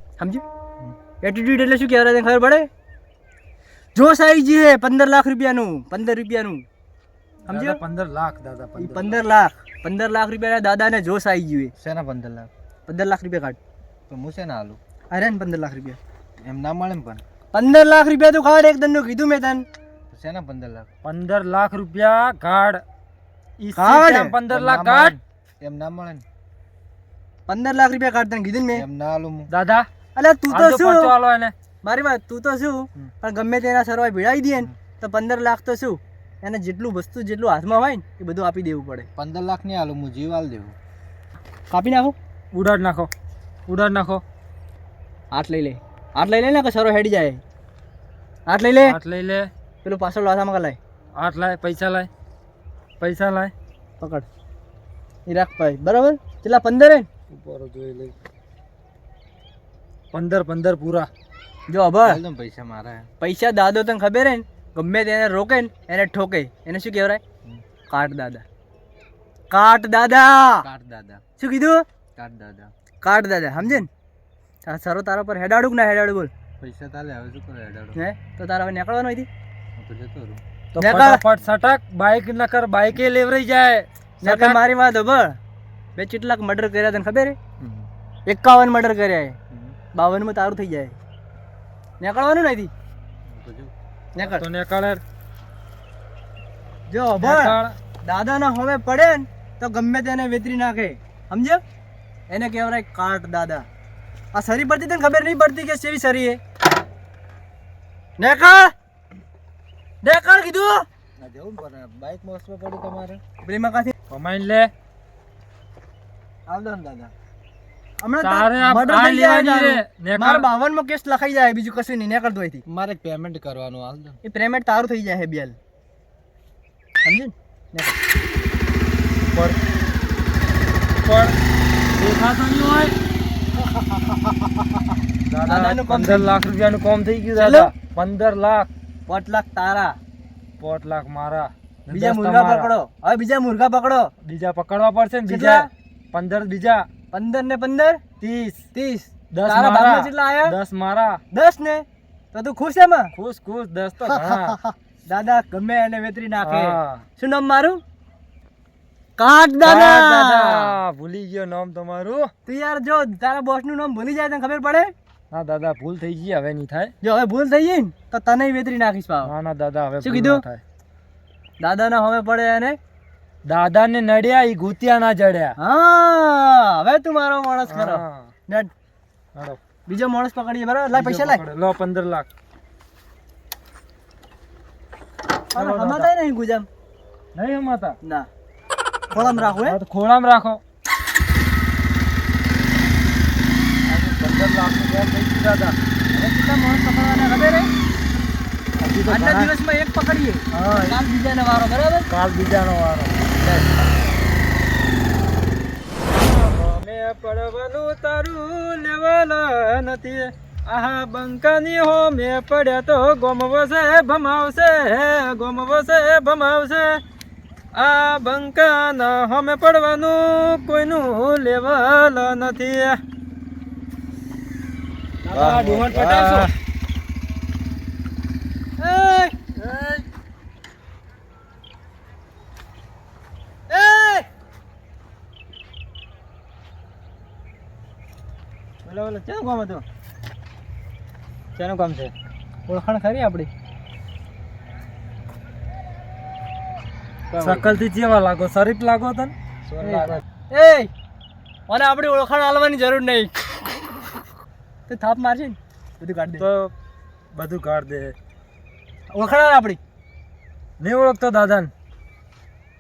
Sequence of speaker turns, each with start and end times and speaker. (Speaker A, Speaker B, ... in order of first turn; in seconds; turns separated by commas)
Speaker A: 1.2-2.7, Speaker A: 4.0-6.7, Speaker A: 7.5-7.8, Speaker B: 7.5-9.2, Speaker A: 8.8-11.7, Speaker C: 11.8-12.5, Speaker A: 12.9-13.6, Speaker C: 14.1-14.8, Speaker A: 15.1-16.0, Speaker C: 16.4-17.2, Speaker A: 17.5-19.6, Speaker C: 20.1-20.9, Speaker B: 21.0-22.8, Speaker B: 23.6-25.2, Speaker A: 23.8-24.4, Speaker C: 24.5-26.2, Speaker A: 27.5-28.9, Speaker C: 28.7-29.5, Speaker B: 29.5-29.9, Speaker A: 30.2-31.1, Speaker B: 30.5-31.5, Speaker A: 31.8-39.1, Speaker C: 39.2-40.8, Speaker A: 41.7-42.2, Speaker B: 42.5-43.1, Speaker B: 43.7-44.2, Speaker A: 45.3-47.4, Speaker A: 48.5-49.0, Speaker B: 48.8-49.5, Speaker A: 49.8-50.8, Speaker B: 51.2-52.1, Speaker B: 53.0-53.5, Speaker A: 54.0-54.3, Speaker A: 55.3-57.1, Speaker B: 57.3-58.1, Speaker B: 60.1-61.1, Speaker A: 61.7-62.2, Speaker C: 62.1-63.1, Speaker A: 63.2-67.2, Speaker A: 67.9-68.4, Speaker A: 69.5-70.7, Speaker C: 70.6-71.2, Speaker A: 71.4-71.8, Speaker C: 72.2-72.7, Speaker A: 73.0-73.9, Speaker A: 74.7-76.3, Speaker C: 76.6-78.0, Speaker A: 78.0-79.3, Speaker C: 79.8-80.4, Speaker B: 80.8-84.6, Speaker A: 80.8-81.2, Speaker A: 84.2-85.4, Speaker A: 86.0-87.4, Speaker A: 88.3-89.4, Speaker A: 90.0-90.9, Speaker A: 92.0-92.7, Speaker C: 93.3-93.7, Speaker A: 94.2-94.5, Speaker B: 94.2-95.0, Speaker A: 96.9-101.6, Speaker B: 97.2-97.8, Speaker A: 102.3-103.7, Speaker A: 104.3-106.4, Speaker A: 108.2-108.7, Speaker A: 110.0-110.9, Speaker C: 111.2-113.2, Speaker A: 113.4-113.9, Speaker B: 114.1-114.7, Speaker C: 116.5-117.1, Speaker A: 118.0-122.6, Speaker B: 118.2-120.5, Speaker C: 122.7-124.2, Speaker A: 124.2-125.6, Speaker A: 127.0-128.0, Speaker B: 129.2-129.6, Speaker B: 131.0-131.3, Speaker B: 132.0-132.9, Speaker A: 133.6-134.8, Speaker B: 135.3-138.7, Speaker A: 135.5-136.3, Speaker A: 137.3-137.7, Speaker A: 139.1-140.0, Speaker B: 140.6-142.7, Speaker A: 141.9-144.1, Speaker B: 144.2-146.8, Speaker A: 145.3-145.7, Speaker A: 147.1-148.0, Speaker B: 148.2-148.6, Speaker A: 148.7-150.6, Speaker B: 149.3-151.2, Speaker A: 151.3-153.1, Speaker B: 153.2-154.6, Speaker A: 154.1-157.8, Speaker B: 156.4-157.0, Speaker A: 159.2-160.8, Speaker B: 159.6-162.3, Speaker A: 162.5-164.9, Speaker B: 165.3-166.9, Speaker A: 167.0-169.3, Speaker B: 169.2-170.6, Speaker A: 170.0-170.4, Speaker A: 171.6-172.8, Speaker B: 173.4-175.6, Speaker A: 175.6-178.7, Speaker B: 177.7-178.3, Speaker A: 179.9-181.4, Speaker B: 180.9-182.3, Speaker A: 185.6-186.7, Speaker B: 185.6-186.1, Speaker B: 187.3-188.0, Speaker B: 189.1-190.6, Speaker A: 189.2-189.8, Speaker B: 193.9-195.8, Speaker A: 196.1-197.7, Speaker B: 198.8-199.5, Speaker A: 199.1-202.1, Speaker B: 200.5-201.0, Speaker B: 202.1-203.3, Speaker A: 203.4-203.7, Speaker B: 206.1-217.0, Speaker B: 217.7-223.0, Speaker B: 225.2-226.5, Speaker C: 225.3-226.5, Speaker A: 228.8-230.0, Speaker A: 233.7-234.3, Speaker B: 238.8-239.8, Speaker B: 241.6-242.1, Speaker A: 242.7-243.5, Speaker B: 247.4-250.2, Speaker A: 249.8-250.9, Speaker A: 251.7-253.3, Speaker A: 254.9-256.5, Speaker B: 256.4-256.7, Speaker B: 257.3-258.1, Speaker A: 259.1-259.8, Speaker B: 260.8-261.7